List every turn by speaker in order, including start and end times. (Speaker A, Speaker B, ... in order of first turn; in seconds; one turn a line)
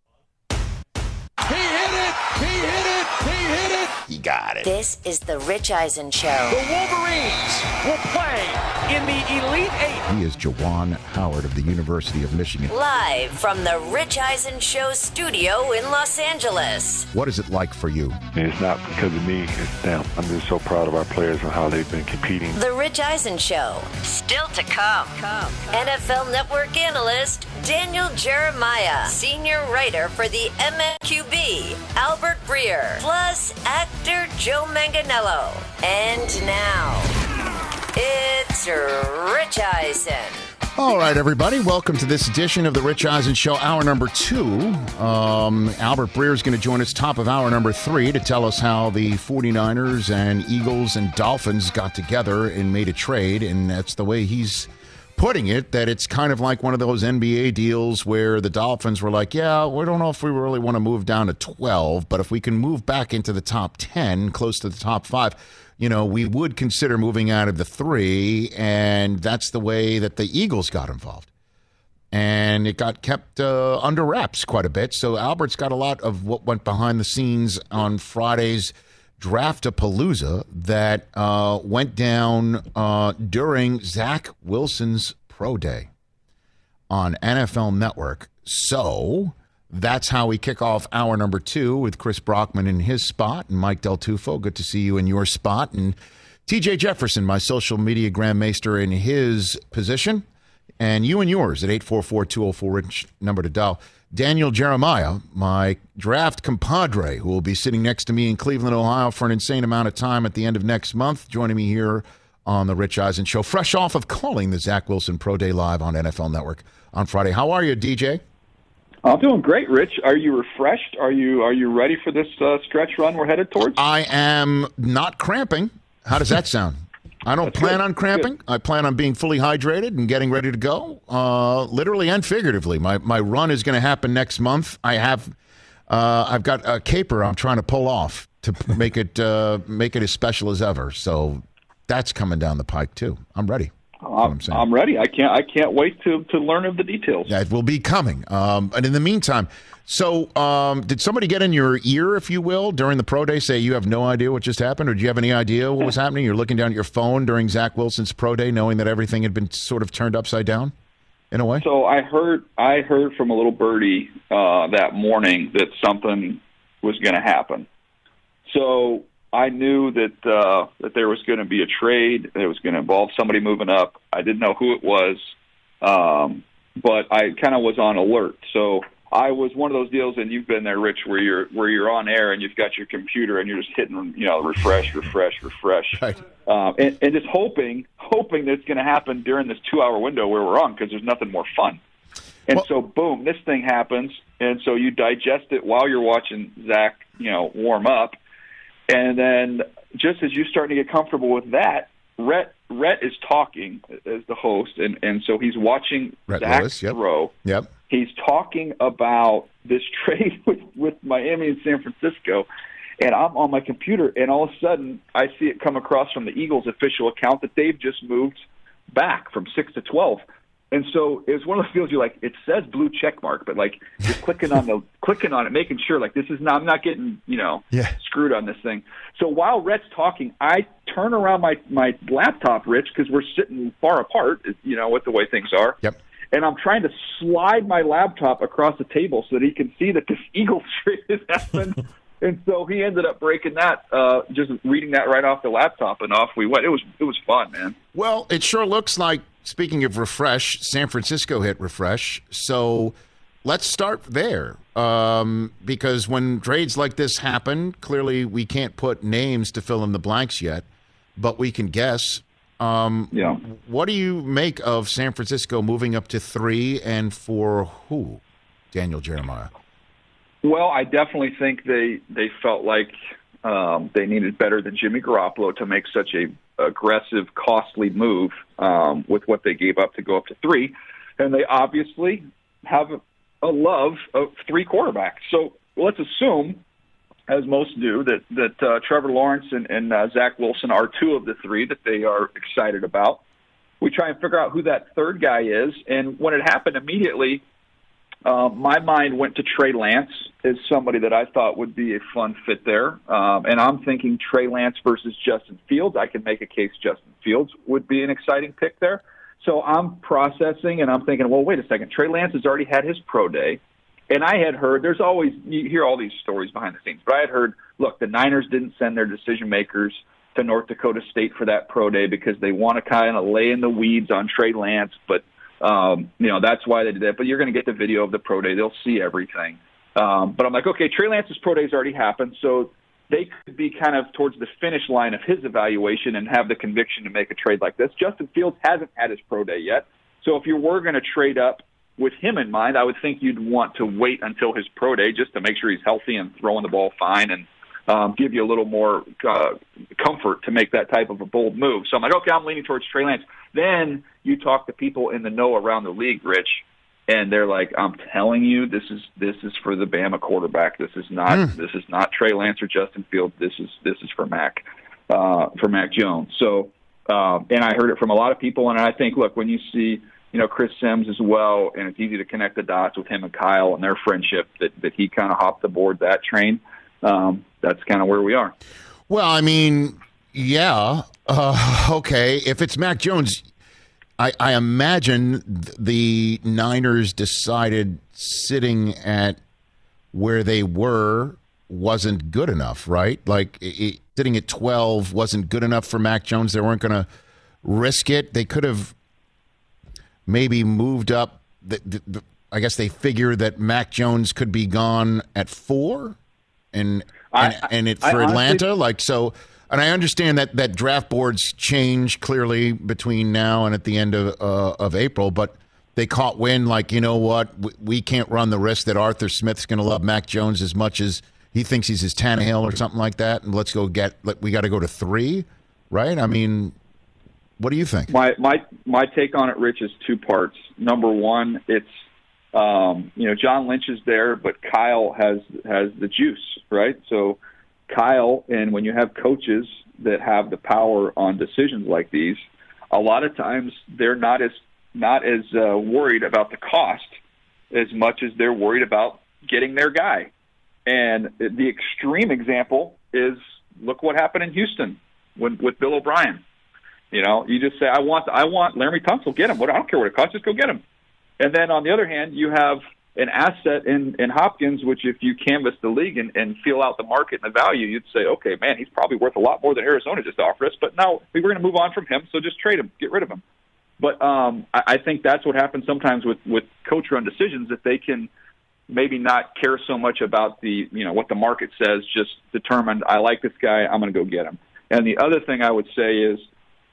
Speaker A: 1.6-3.9
Speaker B: 4.0-4.7
Speaker C: 4.6-6.6
Speaker A: 6.8-9.9
Speaker B: 10.1-12.8
Speaker C: 12.7-17.1
Speaker B: 17.1-18.2
Speaker D: 18.3-22.6
Speaker C: 22.6-37.1
Speaker C: 38.0-40.4
Speaker B: 40.8-71.3
Speaker B: 72.1-85.9
Speaker B: 86.9-100.2
Speaker B: 100.8-118.2
Speaker E: 119.0-123.8
Speaker B: 123.6-135.3
Speaker E: 127.4-128.3
Speaker B: 135.9-144.7
Speaker E: 144.0-147.3
Speaker B: 147.3-160.7
Speaker B: 161.3-161.7
Speaker E: 161.6-167.7
Speaker E: 168.5-175.3
Speaker E: 175.8-191.8
Speaker E: 192.5-198.2
Speaker E: 198.9-207.3
Speaker B: 206.3-207.7
Speaker E: 207.9-212.5
Speaker E: 213.0-235.8
Speaker E: 236.3-247.8
Speaker B: 247.9-252.9
Speaker B: 253.4-260.6
Speaker B: 261.2-269.5
Speaker E: 263.1-263.4
Speaker E: 270.4-286.6
Speaker E: 287.3-293.2
Speaker E: 293.8-297.4
Speaker E: 298.2-378.6
Speaker B: 361.3-361.5
Speaker B: 379.1-383.4
Speaker B: 384.2-389.4
Speaker B: 390.1-397.1
Speaker B: 397.6-398.9
Speaker B: 400.3-406.2
Speaker B: 406.7-426.8
Speaker E: 407.3-408.6
Speaker B: 427.6-428.1
Speaker E: 428.1-431.9
Speaker E: 432.5-447.1
Speaker E: 447.7-450.3
Speaker E: 450.9-456.4
Speaker E: 457.1-460.8
Speaker E: 461.4-473.4
Speaker E: 474.0-478.3
Speaker E: 478.9-486.5